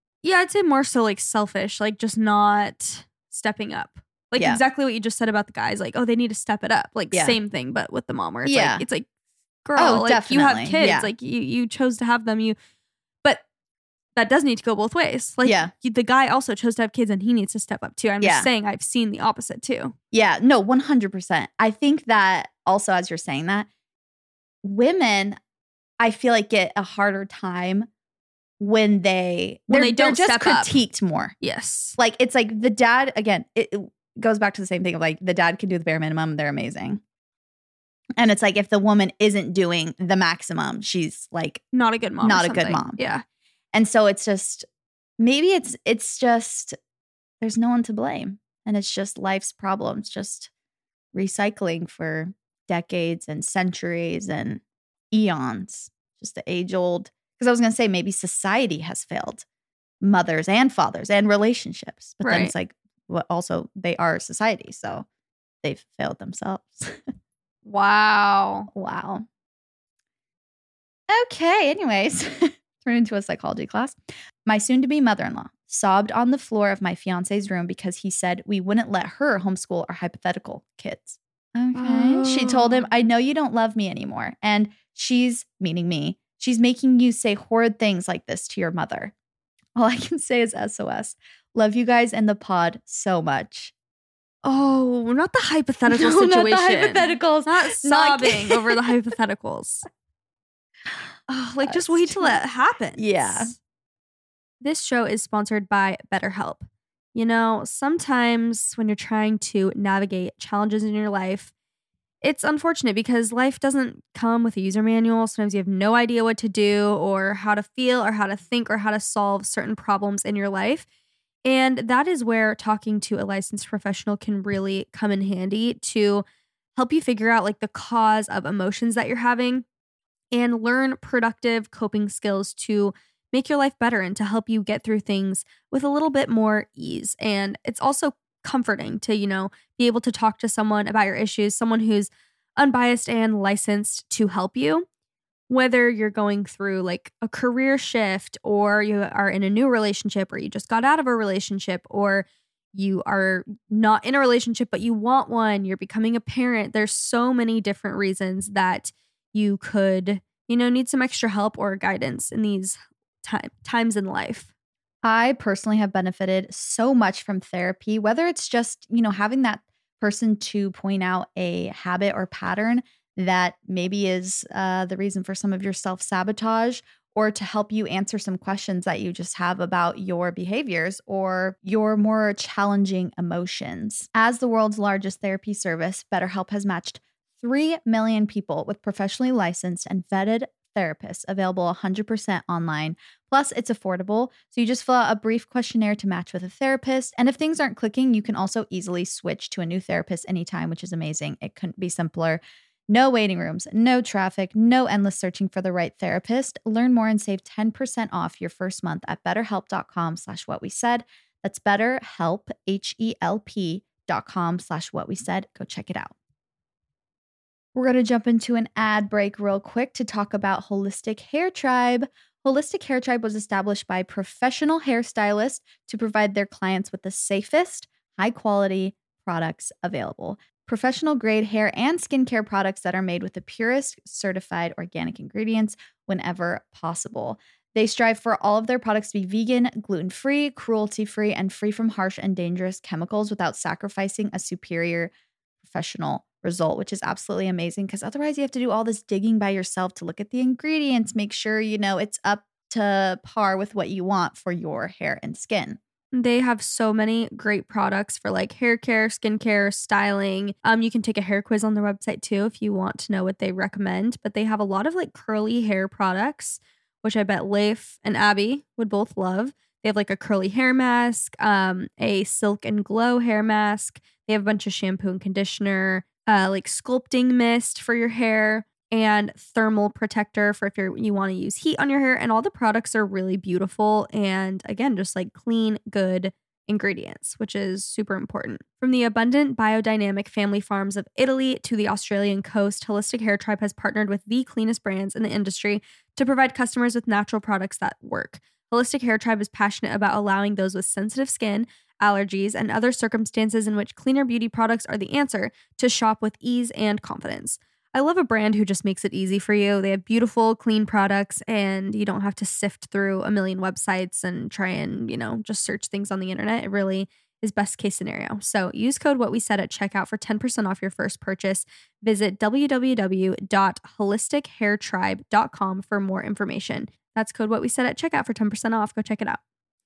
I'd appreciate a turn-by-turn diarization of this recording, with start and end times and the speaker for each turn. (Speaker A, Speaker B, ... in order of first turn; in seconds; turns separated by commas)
Speaker A: 0.2-9.1, Speaker B: 7.1-7.4, Speaker B: 8.4-8.8, Speaker A: 9.6-12.6, Speaker B: 9.8-11.1, Speaker A: 14.2-19.9, Speaker B: 15.4-15.7, Speaker B: 18.2-18.5, Speaker B: 20.1-23.7, Speaker B: 24.6-25.4, Speaker B: 26.0-27.9, Speaker B: 28.6-31.3, Speaker A: 29.7-30.8, Speaker A: 31.4-31.9, Speaker B: 32.0-37.0, Speaker B: 38.2-41.6, Speaker A: 41.7-43.2, Speaker B: 42.2-43.0, Speaker B: 43.7-44.6, Speaker B: 45.2-46.8, Speaker B: 47.4-50.5, Speaker B: 51.1-54.6, Speaker B: 55.1-59.4, Speaker B: 60.0-65.0, Speaker A: 62.2-62.5, Speaker B: 65.6-67.0, Speaker A: 67.7-68.7, Speaker B: 68.7-69.2, Speaker B: 71.1-89.1, Speaker A: 81.7-82.9, Speaker B: 89.8-93.7, Speaker A: 94.4-99.8, Speaker B: 95.9-98.8, Speaker A: 101.3-103.5, Speaker B: 101.7-102.4, Speaker B: 103.0-103.5, Speaker A: 104.6-111.5, Speaker A: 112.2-120.8, Speaker A: 121.4-126.2, Speaker A: 126.8-129.6, Speaker A: 130.3-144.8, Speaker A: 145.5-164.5, Speaker B: 165.0-216.1, Speaker B: 217.7-245.1, Speaker B: 245.6-255.8, Speaker A: 256.1-329.4